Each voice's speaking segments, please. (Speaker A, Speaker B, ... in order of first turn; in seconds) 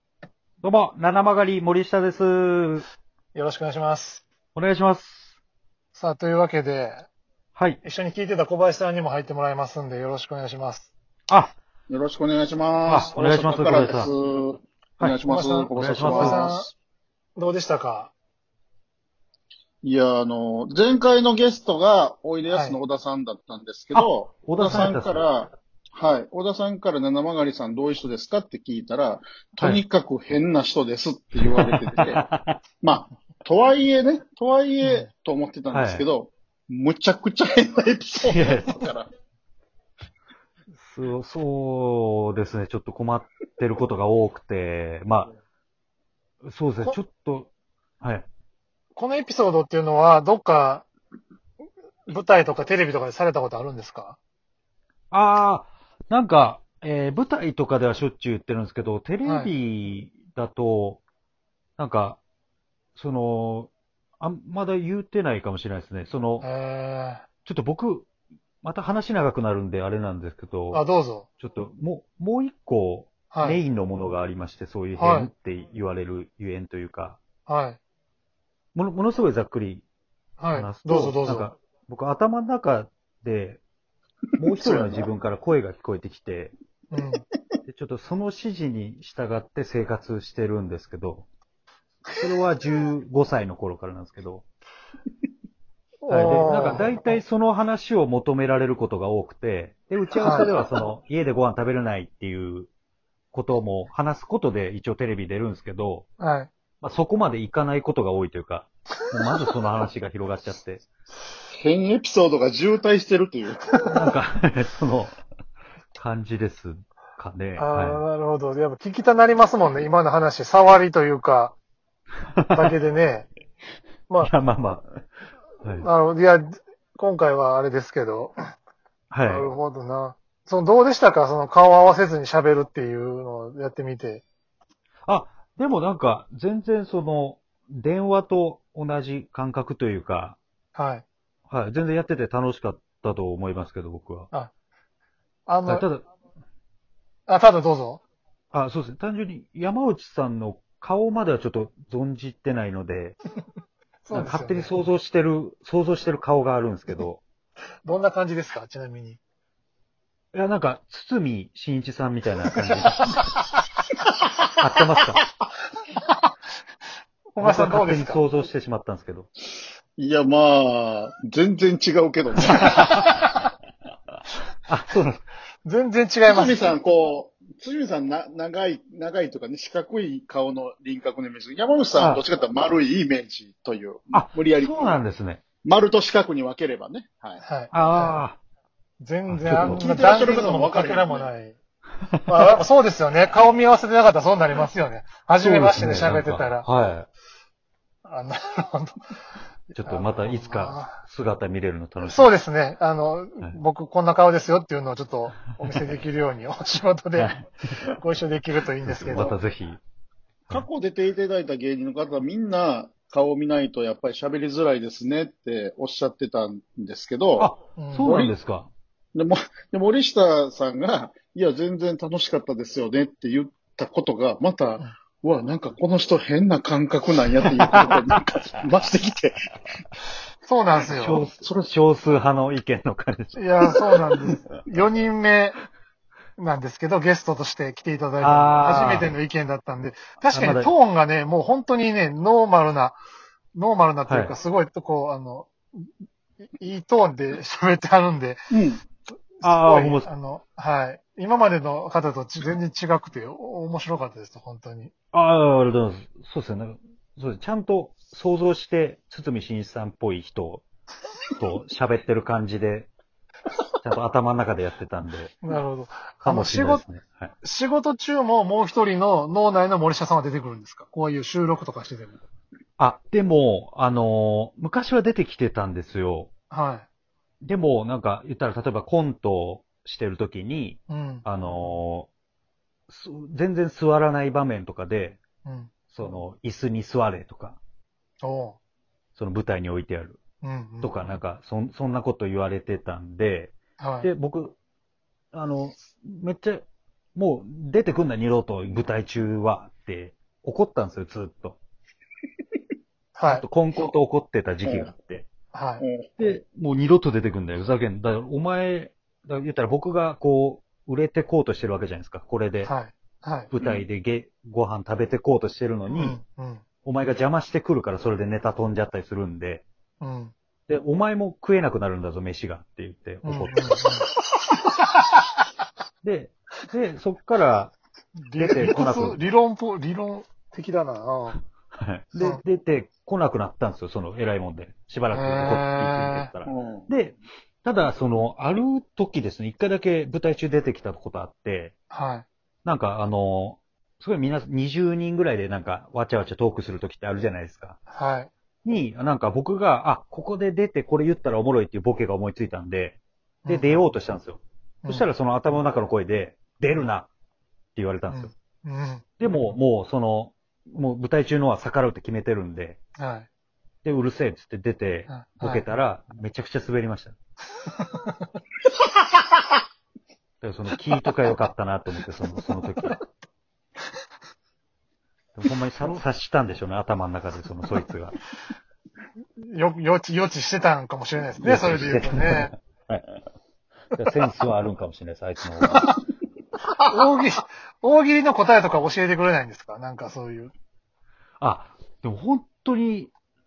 Speaker A: 0.6-2.9, 4.5-5.3, 7.6-7.8, 11.3-11.5, 12.9-14.1, 15.0-16.4, 23.9-25.2, 31.4-32.6, 35.7-36.1, 38.2-38.8, 40.7-45.3, 46.4-47.5, 48.0-48.3, 55.1-61.0, 61.8-62.2, 63.0-66.5, 67.5-68.1, 68.6-70.8, 71.4-77.2, 78.8-79.8, 80.5-83.6, 84.4-86.5, 87.7-91.3, 92.2-94.5, 96.1-102.7, 103.3-106.1, 106.8-110.8, 113.9-115.2, 116.0-118.0, 122.4-122.7, 124.2-124.9, 125.6-125.9, 129.1-129.5, 135.1-140.4, 141.5-144.3, 145.7-146.1, 148.5-153.2, 154.1-157.2, 160.3-163.2, 164.6-165.2, 167.4-169.3, 172.5-173.1, 174.7-175.2, 181.9-182.2, 184.1-185.4, 187.7-188.4, 189.3-189.8, 195.4-197.1, 199.7-202.3, 207.2-207.4, 208.8-209.8, 217.4-218.7, 227.7-228.2, 230.9-233.4, 238.2-239.1, 240.3-240.7, 244.1-244.4, 249.4-250.1, 255.1-260.6, 261.4-262.9, 263.8-265.4, 266.2-267.3, 272.8-276.3, 277.4-282.1, 282.9-285.2, 285.9-287.6, 289.1-290.2, 290.8-294.6, 295.3-296.6, 297.2-301.6, 303.3-305.3, 306.2-312.7, 313.5-316.2, 316.9-319.7, 320.7-323.9, 326.0-327.8, 328.4-329.2, 331.8-341.7, 342.6-347.8, 348.6-357.1, 357.8-358.3, 359.2-362.8, 363.8-367.2, 370.4-373.0, 375.4-378.2, 381.4-383.1, 383.9-385.9, 391.4-393.1
Speaker B: 3.3-4.2, 5.9-7.1, 7.8-10.9, 15.3-16.7, 17.4-18.1, 22.5-22.8, 49.0-50.9, 52.1-54.2, 59.2-59.5, 66.4-67.2, 70.7-71.3, 73.3-73.6, 75.0-75.3, 77.5-77.8, 80.4-81.5, 86.9-87.3, 96.0-97.0, 100.2-100.5, 106.2-106.5, 113.8-114.1, 117.6-121.5, 122.5-123.3, 125.8-128.4, 129.3-134.2, 140.8-141.1, 145.5-145.9, 147.3-148.0, 154.0-154.7, 157.8-159.2, 167.3-168.2, 175.7-176.6, 187.4-188.2, 189.0-191.6, 192.3-196.7, 198.0-199.0, 199.8-201.0, 202.0-209.4, 217.8-218.2, 230.4-231.2, 233.3-235.6, 236.4-243.0, 243.5-245.9, 246.6-248.4, 249.4-254.9, 265.4-266.8, 267.4-272.2, 276.5-276.9, 280.9-281.3, 285.4-285.7, 288.2-288.6, 290.4-290.9, 293.8-294.1, 303.1-303.4, 305.5-305.8, 312.6-313.5, 315.9-316.6, 320.0-320.3, 323.2-324.1, 328.2-331.4, 335.1-336.3, 341.9-342.3, 347.9-348.3, 353.4-353.8, 358.1-359.0, 363.0-363.3, 365.1-365.6, 367.7-368.3, 379.4-382.5, 386.9-390.5
Speaker C: 11.9-16.7, 19.8-32.2, 32.8-39.1, 84.6-85.0, 111.5-113.8, 170.0-173.0, 176.3-185.0, 185.6-187.4, 189.6-191.3, 210.5-217.5, 218.0-218.3, 219.2-229.4, 248.5-248.8, 305.8-306.2, 336.5-336.9